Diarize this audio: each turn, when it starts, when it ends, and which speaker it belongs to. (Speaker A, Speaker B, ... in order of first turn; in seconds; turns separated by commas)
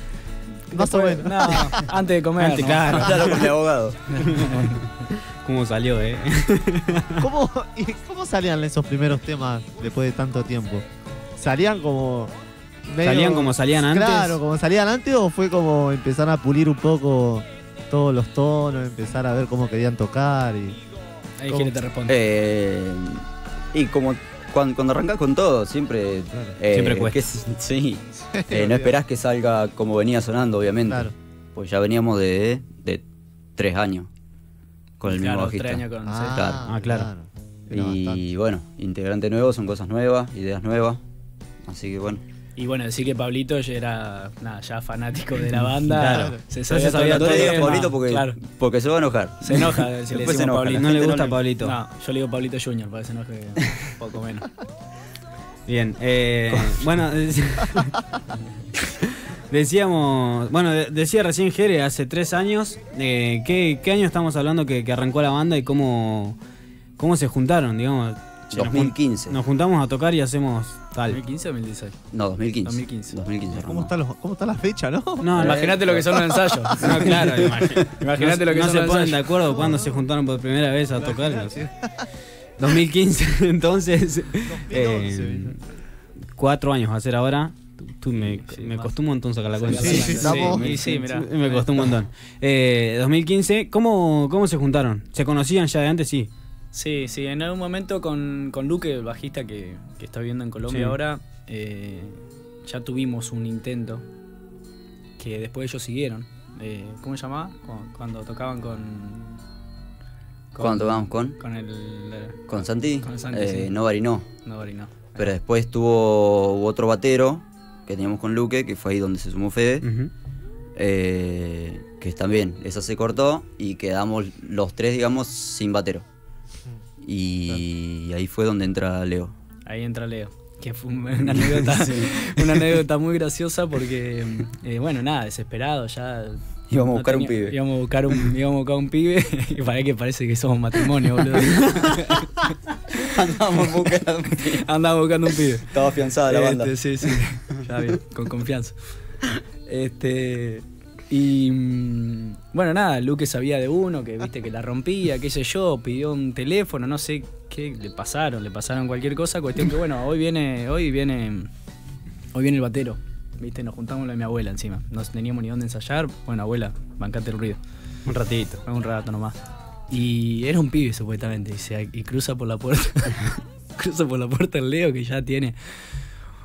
Speaker A: 0.7-1.9, Speaker B: 0.7-3.4, Speaker C: 2.4-3.5, Speaker D: 2.9-4.0, Speaker B: 4.1-4.9, Speaker C: 4.2-7.2, Speaker A: 7.2-10.8, Speaker A: 11.4-12.3, Speaker A: 12.8-20.8, Speaker C: 13.0-14.4, Speaker B: 21.4-22.1, Speaker A: 21.5-21.7, Speaker D: 22.1-33.0, Speaker C: 26.7-27.3, Speaker A: 28.3-28.9, Speaker A: 30.9-31.1, Speaker D: 33.5-34.1, Speaker D: 35.0-36.6, Speaker B: 35.0-36.5, Speaker A: 36.0-38.2, Speaker C: 36.7-37.1, Speaker D: 37.7-41.0, Speaker D: 41.6-42.2, Speaker B: 42.6-48.4, Speaker C: 45.9-47.9, Speaker D: 46.8-51.4, Speaker B: 49.4-54.5, Speaker C: 50.8-51.8, Speaker C: 55.7-58.0, Speaker C: 59.0-66.4, Speaker C: 67.0-71.2, Speaker D: 68.5-69.4, Speaker B: 71.1-72.0, Speaker D: 72.1-73.9, Speaker B: 72.6-73.2, Speaker A: 73.6-75.3, Speaker C: 75.2-75.6, Speaker D: 75.4-77.8, Speaker B: 75.4-79.3, Speaker C: 76.8-81.6, Speaker A: 79.5-80.0, Speaker A: 81.0-82.0, Speaker C: 82.6-85.6, Speaker A: 84.5-85.6, Speaker C: 86.3-96.3, Speaker B: 88.2-88.9, Speaker B: 89.5-91.9, Speaker A: 89.7-90.7, Speaker D: 89.8-91.0, Speaker B: 96.7-104.0, Speaker C: 100.7-101.0, Speaker B: 105.2-109.4, Speaker B: 110.5-112.4, Speaker D: 110.6-111.4, Speaker D: 112.5-114.3, Speaker B: 113.0-113.7, Speaker B: 114.4-115.3, Speaker D: 115.2-119.9, Speaker C: 119.8-120.1, Speaker D: 120.8-126.0, Speaker D: 127.0-129.3, Speaker B: 129.7-142.5, Speaker D: 131.2-132.6, Speaker D: 136.7-137.6, Speaker D: 142.9-144.6, Speaker B: 144.3-148.8, Speaker D: 145.7-147.1, Speaker B: 149.7-161.5, Speaker B: 162.3-167.6, Speaker C: 168.1-168.6, Speaker B: 168.6-169.4, Speaker B: 169.9-175.9